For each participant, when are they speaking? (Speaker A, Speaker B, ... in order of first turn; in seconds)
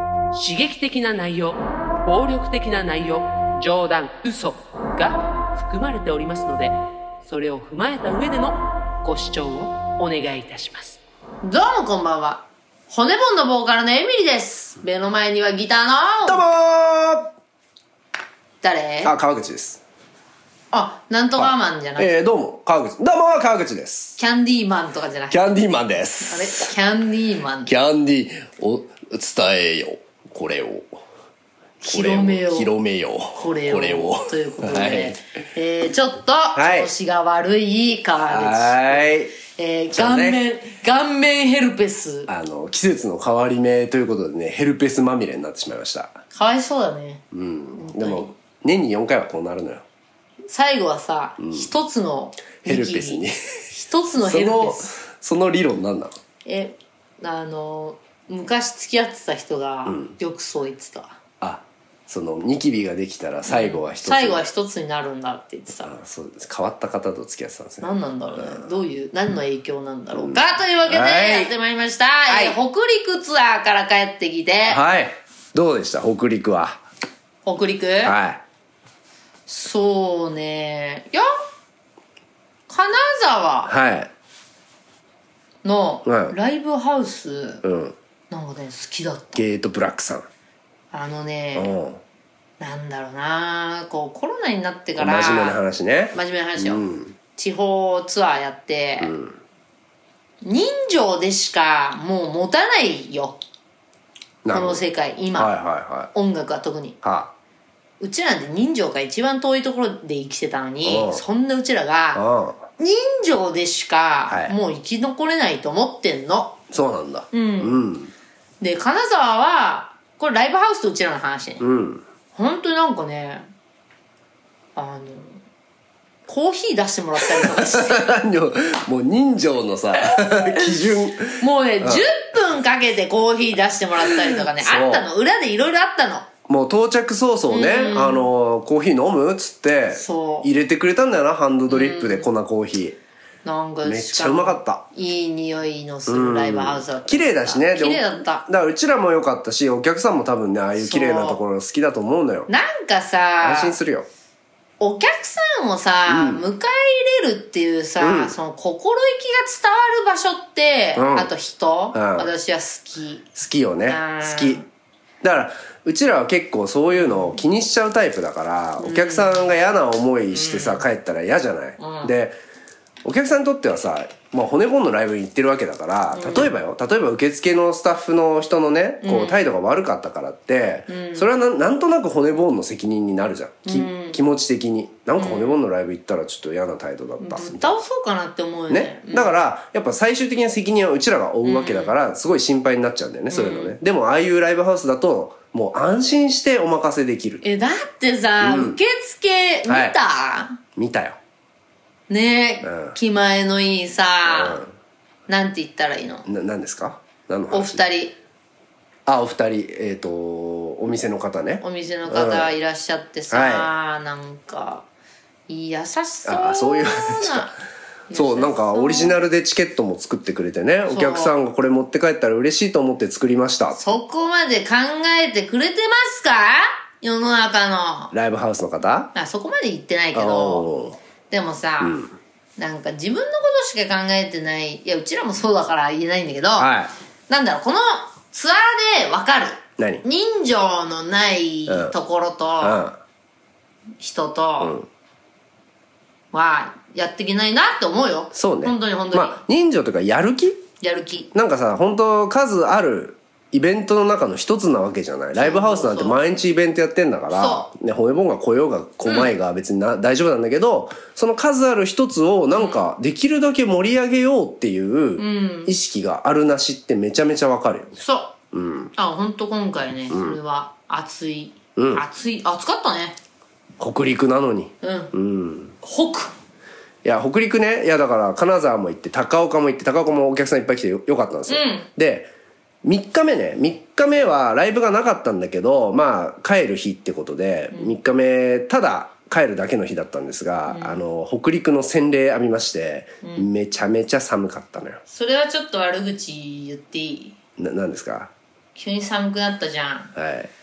Speaker A: 0.3-11.0
Speaker B: 11.4-16.5, 18.6-19.1, 20.7-22.2, 24.2-25.5, 26.2-27.7, 31.8-32.7, 33.4-42.3, 46.3-47.2, 47.8-48.3, 50.5-54.9, 56.5-61.2, 63.5-66.0, 67.8-74.8, 77.5-78.2, 79.5-81.3, 82.7-83.7, 85.6-87.6, 88.3-89.4, 90.9-91.8, 92.6-95.6, 96.1-96.8, 97.3-99.1, 100.4-103.4, 104.5-105.5, 106.1-107.0, 108.0-112.2, 112.8-116.6, 117.3-117.9, 118.6-121.7, 122.3-123.5, 124.8-125.4, 126.3-128.2, 130.2-130.6, 131.3-136.3, 137.5-138.3, 139.9-140.5, 141.7-142.3, 143.4-148.5, 150.8-151.4, 152.5-153.8, 154.8-163.3, 163.9-164.7, 167.0-167.4, 168.8-169.5, 170.3-170.9, 171.8-172.1, 176.2-176.5, 179.0-179.5, 180.9-181.3, 183.7-184.2, 185.2-185.6, 187.2-189.4, 191.4-191.9, 193.3-193.8, 197.4-200.6, 202.1-204.6, 205.3-206.3, 207.5-208.2, 211.6-214.9, 215.5-217.5, 218.1-219.2, 220.9-221.3, 223.8-228.1, 229.2-230.7, 231.3-232.0, 232.6-236.7, 237.3-242.9, 244.0-244.8, 246.3-249.4, 250.8-251.3, 255.4-256.2, 257.3-257.7, 259.1-259.3, 262.6-262.8, 265.2-265.7, 268.0-268.4, 269.0-273.2, 274.8-275.1, 275.8-276.3, 281.5-281.9, 290.7-291.0, 293.2-293.5, 295.1-297.4, 298.8-300.1
Speaker C: 16.3-17.3, 19.0-19.8, 21.4-24.2, 25.3-26.7, 27.7-30.9, 31.9-35.2, 36.6-36.9, 38.2-39.3, 39.9-40.4, 42.3-46.2, 47.3-49.9, 51.4-51.7, 52.6-53.4, 54.2-56.1, 59.9-60.1, 61.4-64.4, 65.9-68.8, 70.2-71.5, 72.3-72.6, 74.7-76.8, 78.0-78.4, 83.7-84.1, 86.0-86.3, 87.6-88.0, 89.4-90.3, 91.5-92.0, 95.0-97.2, 99.0-99.4, 104.4-104.8, 105.4-106.1, 107.0-107.3, 110.8-111.2, 112.2-112.6, 114.3-114.5, 116.7-118.1, 121.6-122.0, 127.2-132.1, 134.1-135.1, 136.5-143.0, 143.8-144.8, 146.1-152.5, 153.4-154.1, 156.1-156.4, 158.0-158.3, 161.0-161.3, 161.9-162.3, 163.3-164.6, 165.2-172.4, 173.0-187.8, 188.7-197.4, 198.4-198.8, 199.7-200.0, 200.8-201.2, 202.6-203.0, 204.3-204.7, 206.3-207.8, 209.1-212.5, 213.3-213.7, 216.2-217.6, 218.1-223.9, 228.1-229.1, 230.1-231.0, 231.8-232.2, 236.6-236.9, 239.8-240.0, 241.7-241.9, 242.6-243.0, 244.6-244.9, 248.3-250.7, 251.3-267.9, 268.5-268.9, 270.1-270.4, 271.8-272.0, 273.8-275.8, 277.0-282.3, 282.8-295.0, 297.6-298.3, 300.1-300.5